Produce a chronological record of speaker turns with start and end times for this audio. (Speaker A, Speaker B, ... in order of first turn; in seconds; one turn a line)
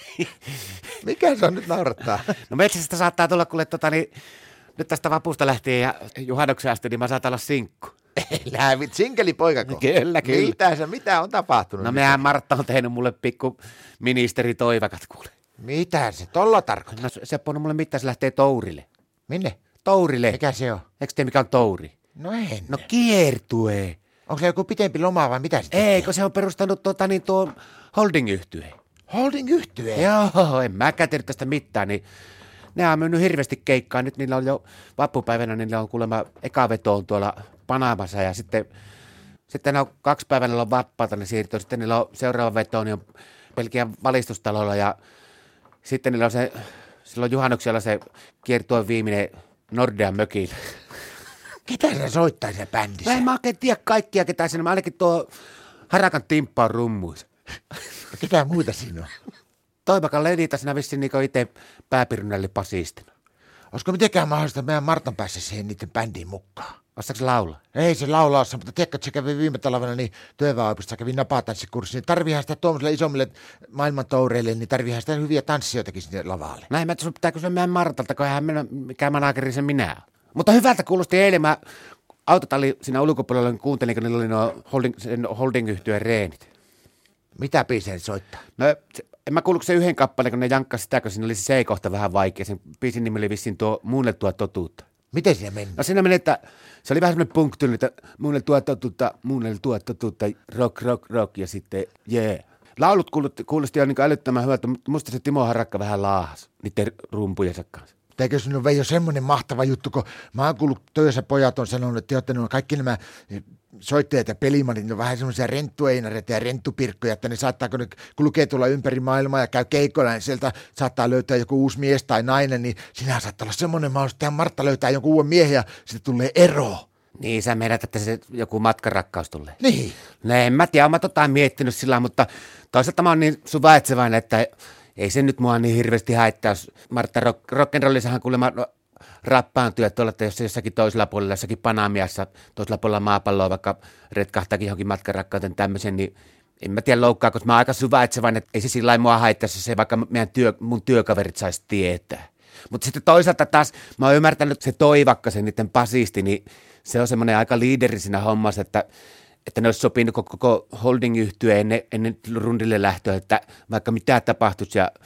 Speaker A: 1.0-2.4
Speaker B: 2.3-4.1
Speaker B: 4.8-7.9
Speaker A: 8.2-12.2
Speaker B: 9.7-10.6
Speaker B: 11.8-15.3
Speaker A: 15.6-17.0
Speaker B: 16.9-18.9
Speaker A: 19.3-19.6
Speaker B: 19.8-20.4
Speaker A: 20.3-20.8
Speaker B: 21.0-21.9
Speaker A: 22.2-22.9
Speaker B: 22.7-24.0
Speaker A: 24.3-26.1
Speaker B: 25.7-28.8
Speaker A: 29.1-30.1
Speaker B: 29.9-32.0
Speaker B: 32.7-38.7
Speaker B: 39.5-43.0
Speaker B: 43.5-45.0
Speaker B: 45.8-50.6
Speaker A: 51.6-53.2
Speaker B: 53.0-55.3
Speaker B: 55.9-57.3
Speaker A: 58.1-59.1
Speaker B: 59.9-63.1
Speaker A: 63.7-66.8
Speaker B: 67.0-67.6
Speaker A: 67.7-76.7
Speaker B: 76.7-81.6
Speaker B: 82.3-86.5
Speaker A: 87.3-88.4
Speaker B: 88.6-94.8
Speaker A: 95.1-95.8
Speaker B: 95.8-107.9
Speaker A: 108.2-126.9
Speaker B: 127.2-129.6
Speaker A: 129.6-130.0
Speaker B: 130.2-138.7
Speaker B: 139.2-158.9
Speaker B: 159.5-164.9